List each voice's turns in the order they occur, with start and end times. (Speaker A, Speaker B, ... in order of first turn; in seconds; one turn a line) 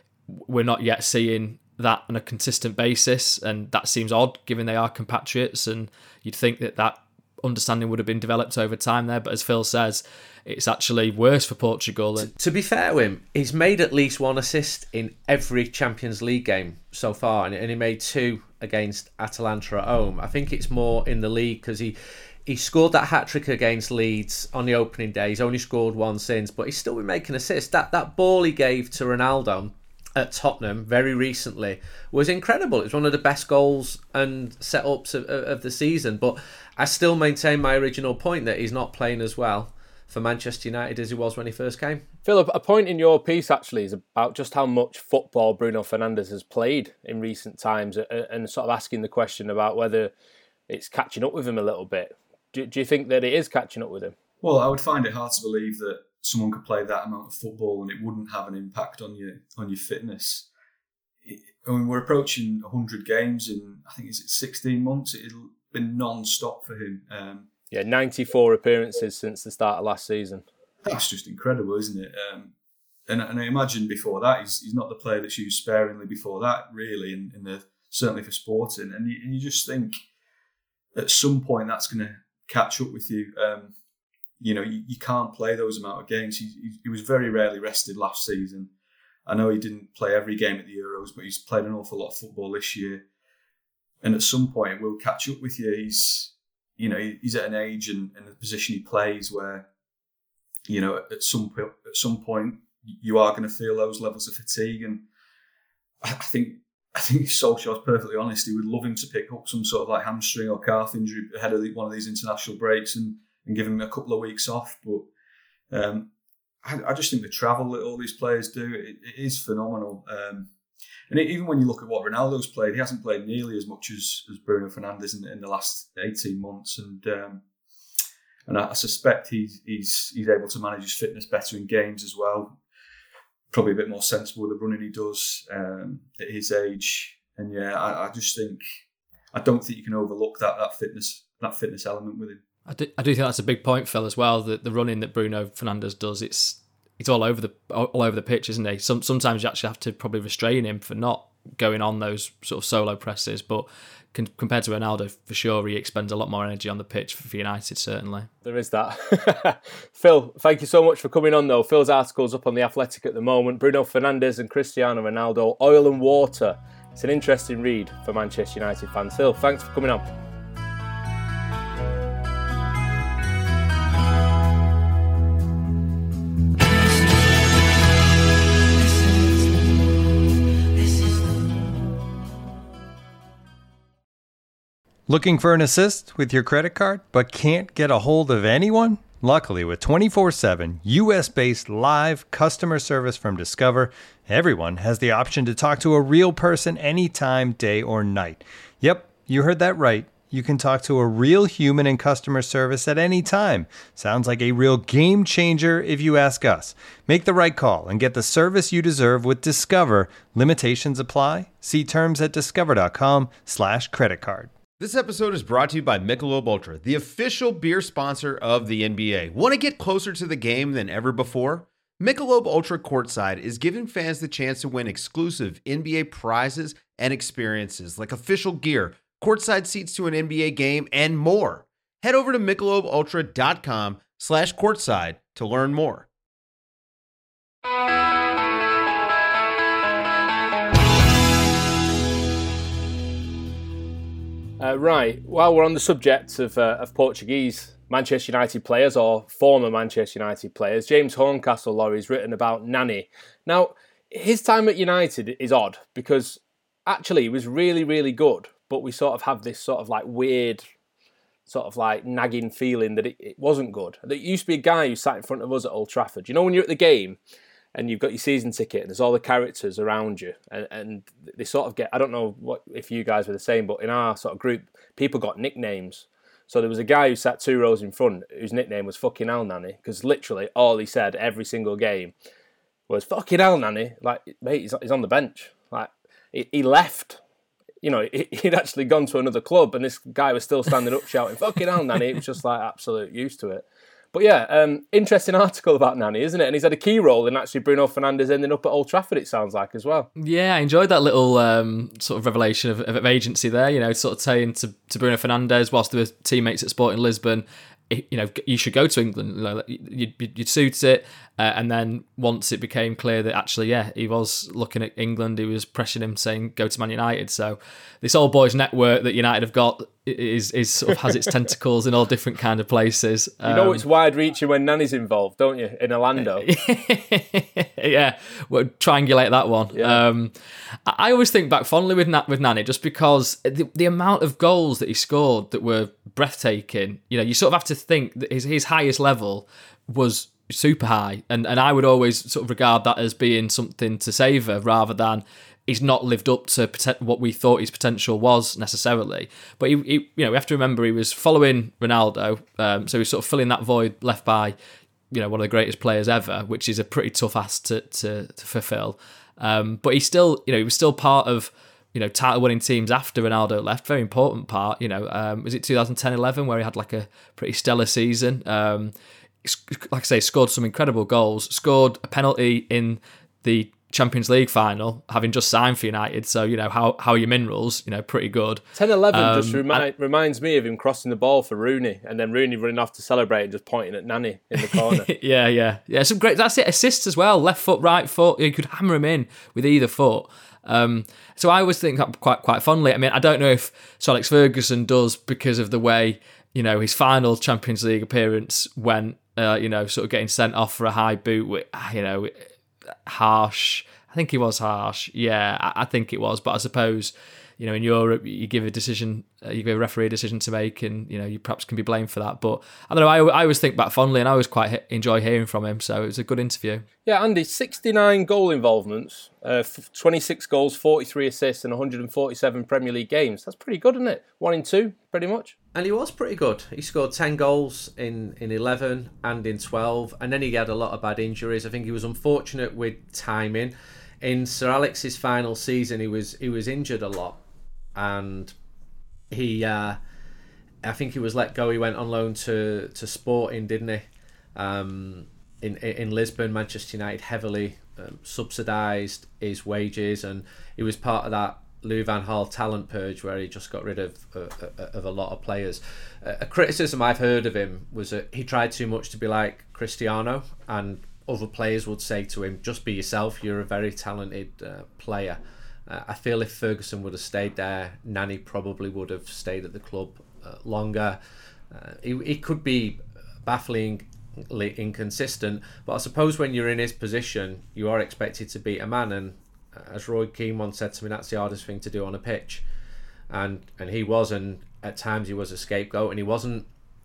Speaker A: 0.3-12.3
Speaker B: 12.2-42.0
Speaker C: 42.2-50.1
Speaker C: 50.7-54.1
Speaker D: 54.4-60.5
Speaker D: 61.2-67.5
Speaker C: 67.7-70.4
Speaker D: 70.8-72.5
Speaker D: 73.1-80.0
Speaker D: 81.0-83.7
Speaker D: 84.4-88.7
Speaker D: 89.3-93.0
Speaker D: 94.0-99.7
Speaker D: 100.7-105.0
Speaker D: 106.0-115.1
Speaker D: 115.7-116.1
Speaker D: 116.6-120.5
Speaker D: 121.1-127.4
Speaker D: 128.5-132.6
Speaker D: 133.5-138.6
Speaker D: 139.3-142.4
Speaker A: 142.7-158.3
Speaker C: 158.4-170.1
Speaker E: 185.1-214.5
Speaker F: 214.8-236.1
Speaker C: 244.6-260.7
Speaker C: 261.5-267.2
Speaker C: 267.8-282.1
Speaker C: 282.9-287.2
Speaker C: 287.8-300.1
Speaker A: 300.2-323.9
Speaker C: 323.4-326.5
Speaker A: 326.2-354.6
Speaker C: 329.8-330.0
Speaker A: 355.1-379.9
Speaker C: 378.8-385.1
Speaker A: 384.6-402.4
Speaker A: 403.1-416.9
Speaker C: 417.1-425.5
Speaker B: 425.7-437.4
Speaker B: 438.0-438.6
Speaker B: 439.3-440.0
Speaker B: 440.8-444.0
Speaker B: 444.6-471.2
Speaker B: 471.7-482.6
Speaker B: 483.3-486.7